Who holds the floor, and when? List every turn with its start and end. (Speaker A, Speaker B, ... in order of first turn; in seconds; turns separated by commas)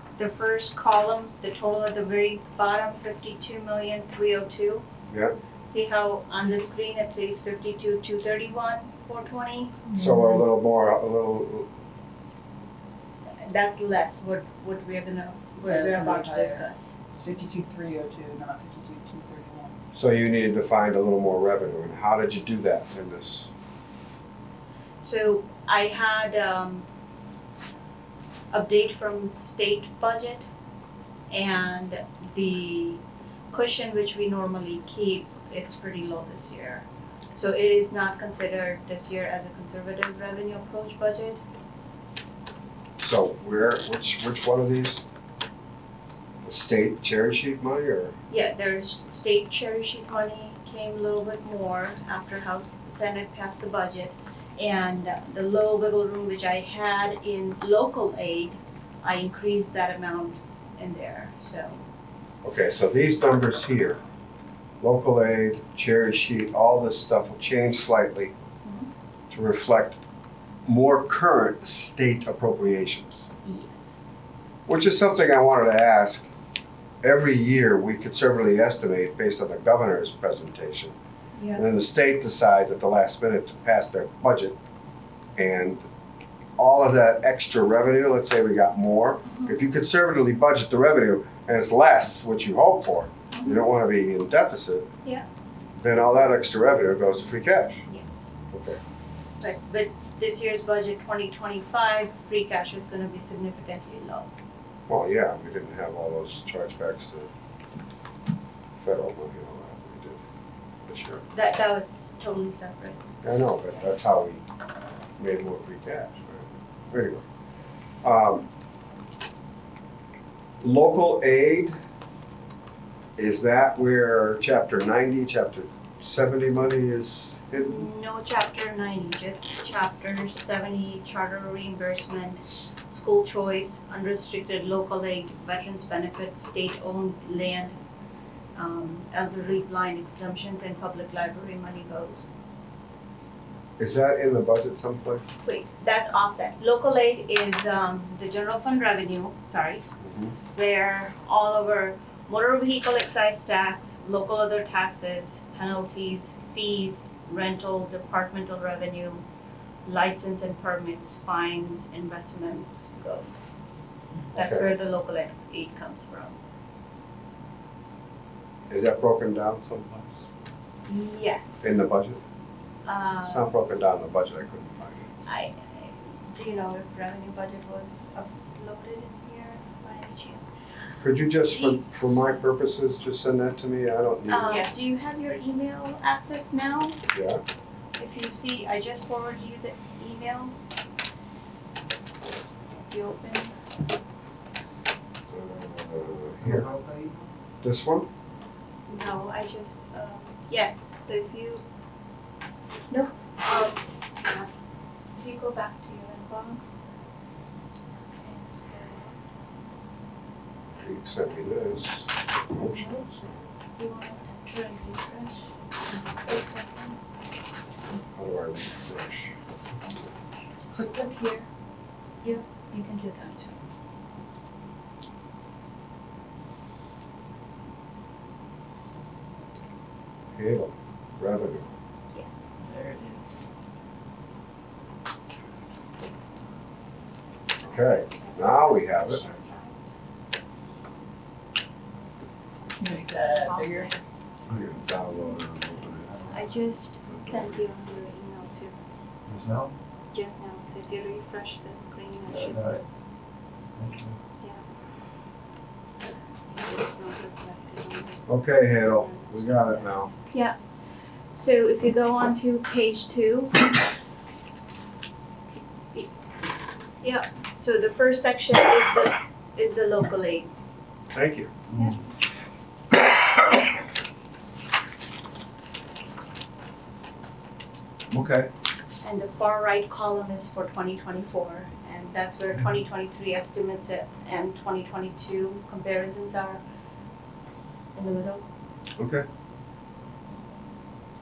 Speaker A: 0.2-4.8, Speaker B: 5.1-5.3, Speaker A: 5.7-9.8, Speaker B: 9.9-11.7, Speaker A: 13.4-16.9, Speaker C: 15.6-19.8, Speaker B: 19.9-23.5, Speaker A: 25.0-26.9, Speaker A: 28.5-30.4, Speaker A: 31.3-41.4, Speaker B: 43.0-45.0, Speaker B: 46.4-48.1, Speaker A: 48.3-61.8, Speaker B: 62.4-64.0, Speaker B: 64.8-68.3, Speaker B: 69.3-70.0, Speaker B: 70.7-73.3, Speaker A: 73.4-74.0, Speaker B: 74.7-76.3, Speaker B: 77.0-81.0, Speaker A: 81.4-81.6, Speaker B: 81.5-84.6, Speaker B: 85.4-85.8, Speaker B: 86.6-94.9, Speaker A: 89.2-89.6, Speaker A: 93.3-93.6, Speaker B: 95.8-97.8, Speaker A: 97.9-98.2, Speaker B: 98.5-98.8, Speaker A: 99.4-104.3, Speaker B: 104.9-107.3, Speaker B: 108.8-110.2, Speaker B: 110.9-111.2, Speaker A: 111.3-113.0, Speaker B: 113.2-114.4, Speaker B: 115.2-117.2, Speaker B: 118.0-118.5, Speaker B: 120.6-121.8, Speaker B: 123.2-127.9, Speaker A: 127.5-137.8, Speaker A: 138.6-142.3, Speaker B: 143.8-145.3, Speaker A: 145.4-149.8, Speaker B: 150.0-150.3, Speaker A: 150.5-159.2, Speaker A: 159.9-163.5, Speaker A: 164.3-166.4, Speaker B: 164.3-164.7, Speaker B: 168.7-170.2, Speaker A: 170.9-171.8, Speaker B: 171.6-172.2, Speaker A: 172.8-173.5, Speaker B: 173.2-175.1, Speaker A: 175.2-180.5, Speaker B: 181.0-184.9, Speaker A: 181.5-181.9, Speaker A: 184.3-187.0, Speaker B: 187.1-187.4, Speaker A: 188.0-190.6, Speaker A: 192.7-193.5, Speaker B: 195.3-196.7, Speaker D: 196.4-197.2, Speaker B: 197.6-198.1, Speaker A: 198.9-201.6, Speaker A: 202.9-204.5, Speaker A: 205.2-206.8, Speaker A: 208.2-209.2, Speaker B: 210.8-213.2, Speaker A: 212.7-213.1, Speaker A: 213.8-217.0, Speaker B: 218.1-219.3, Speaker A: 219.8-221.4, Speaker C: 220.7-221.4, Speaker A: 222.2-223.6, Speaker B: 230.3-231.7, Speaker A: 232.1-232.6, Speaker C: 232.6-233.4, Speaker B: 237.6-239.3, Speaker A: 238.1-240.0, Speaker C: 242.8-243.9, Speaker A: 243.2-244.0, Speaker B: 244.5-246.1, Speaker D: 244.7-245.0, Speaker D: 246.1-246.6, Speaker A: 246.3-248.8, Speaker D: 249.3-249.8, Speaker A: 250.1-252.8, Speaker D: 252.3-252.8, Speaker D: 253.8-254.2, Speaker A: 256.5-260.6, Speaker B: 258.3-260.1, Speaker A: 261.3-263.7, Speaker A: 267.0-270.5, Speaker B: 271.1-271.8, Speaker B: 278.1-278.5, Speaker A: 279.0-286.6, Speaker A: 288.0-288.4, Speaker B: 289.0-289.2